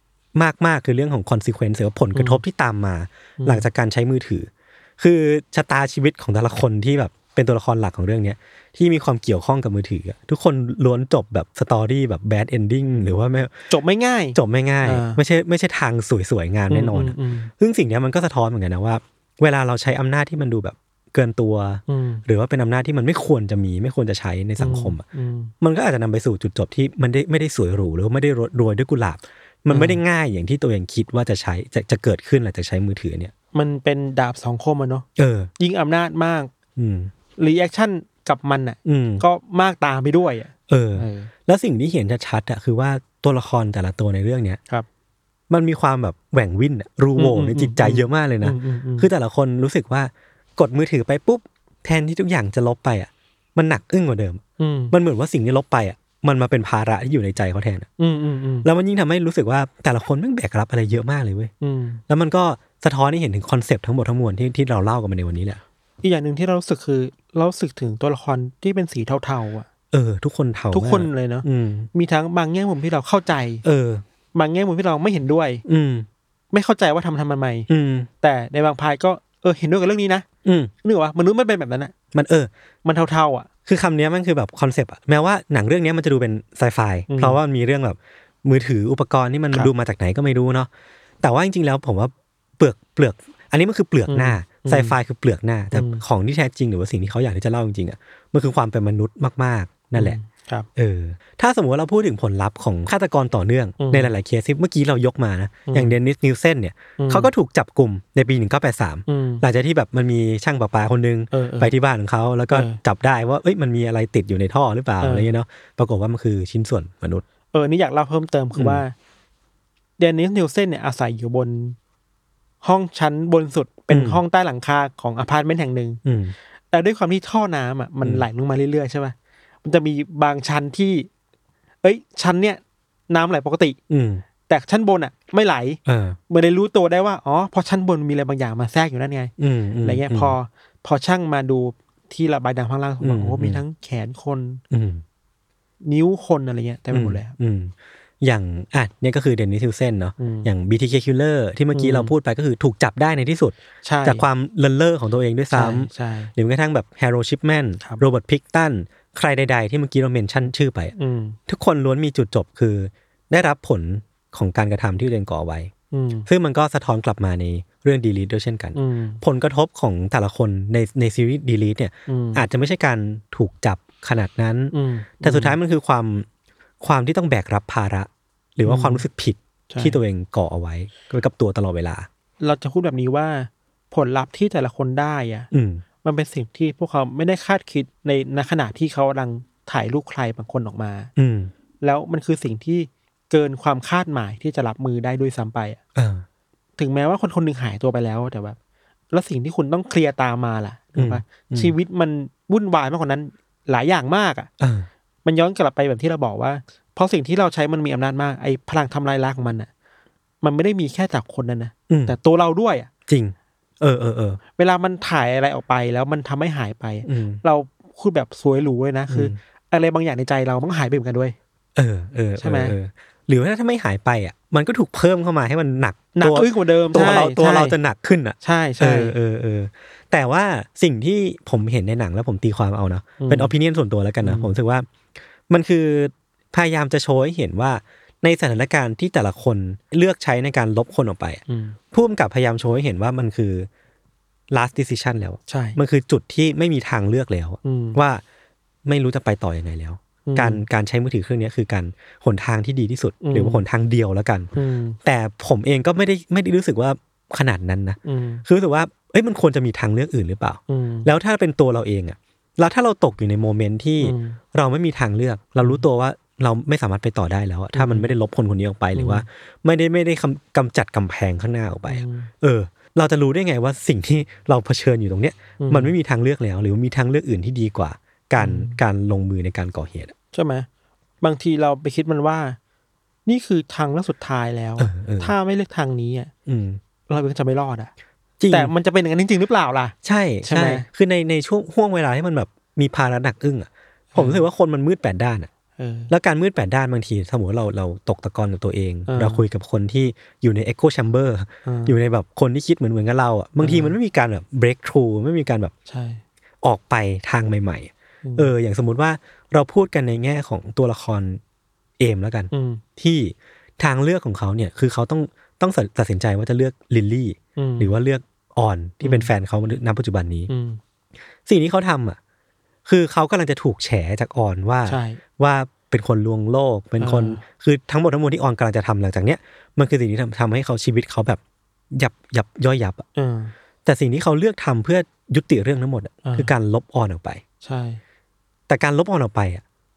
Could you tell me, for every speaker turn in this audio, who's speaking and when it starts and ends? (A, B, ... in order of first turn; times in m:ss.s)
0:00.3-0:13.6 A
0:02.1-0:02.4 B
0:03.4-0:03.7 B
0:13.7-0:15.2 B
0:14.4-0:25.0 A
0:16.7-0:17.5 B
0:21.9-0:22.2 B
0:24.6-0:25.5 B
0:25.6-0:33.3 A
0:29.7-0:30.0 B
0:33.5-0:35.0 B
0:35.2-0:35.5 A
0:35.6-0:36.5 B
0:36.8-0:37.1 A
0:37.4-0:41.3 B
0:38.8-0:39.2 A
0:40.7-0:44.6 A
0:45.5-0:54.4 A
0:47.1-0:49.1 B
0:54.6-0:54.9 B
0:54.9-0:57.9 A
0:58.0-0:58.7 B
0:58.6-1:01.5 A
1:01.6-1:02.0 B
1:02.1-1:05.6 A
1:06.0-1:09.7 B
1:09.9-1:11.9 A
1:10.7-1:13.6 B
1:13.6-1:14.0 A
1:14.3-1:15.6 B
1:15.6-1:16.1 A
1:16.5-1:17.7 B
1:17.7-1:18.1 A
1:18.2-1:20.2 B
1:20.4-1:20.7 A
1:20.8-1:21.9 B
1:22.1-1:22.5 A
1:22.8-1:23.5 B
1:23.6-1:30.7 A
1:27.1-1:27.4 B
1:31.2-1:40.2 A
1:34.1-1:34.9 B
1:35.7-1:36.0 B
1:40.0-1:40.7 B
1:40.8-1:57.2 A
1:43.8-1:44.1 B
1:45.7-1:46.0 B
1:47.0-1:47.3 B
1:49.1-1:49.4 B
1:51.3-1:51.7 B
1:52.5-1:52.8 B
1:55.0-1:55.3 B
1:57.5-1:58.9 B
1:58.5-1:58.8 A
2:00.0-2:01.8 B
2:02.6-2:06.0 B
2:03.9-2:04.2 A
2:06.0-2:06.3 A
2:06.7-2:11.1 B
2:11.8-2:13.8 B
2:13.9-2:14.2 A
2:14.4-2:24.6 B
2:15.8-2:16.2 A
2:19.4-2:20.4 A
2:23.0-2:23.6 A
2:24.7-2:25.0 A
2:25.8-2:27.3 B
2:26.9-2:40.9 A
2:30.2-2:30.5 B
2:31.7-2:32.1 B
2:33.8-2:34.2 B
2:35.5-2:36.3 B
2:41.0-2:41.4 B
2:41.5-2:45.7 A
2:45.9-2:46.3 B
2:46.3-2:56.2 A
2:48.7-2:49.2 B
2:52.1-2:52.4 B
2:54.7-2:55.6 B
2:56.8-3:02.1 A
2:58.6-2:59.0 B
2:59.7-3:00.0 B
3:02.4-3:05.5 B
3:05.5-3:05.8 A
3:06.0-3:11.1 B
3:11.2-3:11.5 A
3:11.8-3:15.8 B
3:15.9-3:16.2 A
3:16.8-3:18.6 B
3:19.1-3:24.5 B
3:21.0-3:21.7 A
3:24.6-3:24.9 A
3:25.2-3:29.7 B
3:30.4-3:32.9 B
3:31.9-3:32.2 A
3:33.1-3:34.4 A
3:34.6-3:41.4 B
3:37.0-3:37.4 A
3:39.1-3:39.4 A
3:41.8-3:54.9 A
3:42.4-3:42.7 B
3:46.1-3:47.8 B
3:48.4-3:49.1 B
3:53.2-3:53.5 B
3:54.2-3:54.6 B
3:55.5-4:03.7 A
4:01.5-4:01.8 B
4:04.5-4:08.2 A
4:05.5-4:05.8 B
4:07.6-4:08.0 B
4:08.8-4:14.5 A
4:10.3-4:10.6 B
4:13.2-4:13.6 B
4:14.5-4:15.0 B
4:15.0-4:40.1 A
4:18.0-4:18.4 B
4:20.7-4:21.1 B
4:24.0-4:24.4 B
4:27.7-4:28.1 B
4:28.9-4:29.2 B
4:31.9-4:32.3 B
4:35.6-4:35.9 B
4:38.4-4:38.8 B
4:40.3-4:40.7 B
4:41.2-4:42.6 B
4:43.2-4:46.3 B
4:44.8-4:45.3 A
4:46.5-4:46.8 A
4:47.1-4:47.9 B
4:48.4-4:48.7 A
4:48.5-4:49.9 B
4:50.0-4:55.5 A
4:50.4-4:50.9 B
4:54.1-4:54.4 B
4:55.8-4:56.1 B
4:56.1-5:05.7 A
4:59.1-4:59.4 B
5:01.6-5:02.0 B
5:03.6-5:04.0 B
5:05.9-5:06.2 B
5:06.6-5:11.4 A
5:08.2-5:08.5 B
5:12.0-5:20.5 A
5:12.5-5:12.8 B
5:17.6-5:17.9 B
5:19.0-5:19.3 B
5:20.5-5:20.8 B
5:21.4-5:22.2 A
5:22.8-5:31.4 A
5:24.9-5:25.2 B
5:27.0-5:27.4 B
5:31.9-5:33.0 A
5:33.2-5:33.5 B
5:33.8-5:37.4 A
5:36.2-5:36.5 B
5:37.6-5:38.0 B
5:38.7-5:39.6 A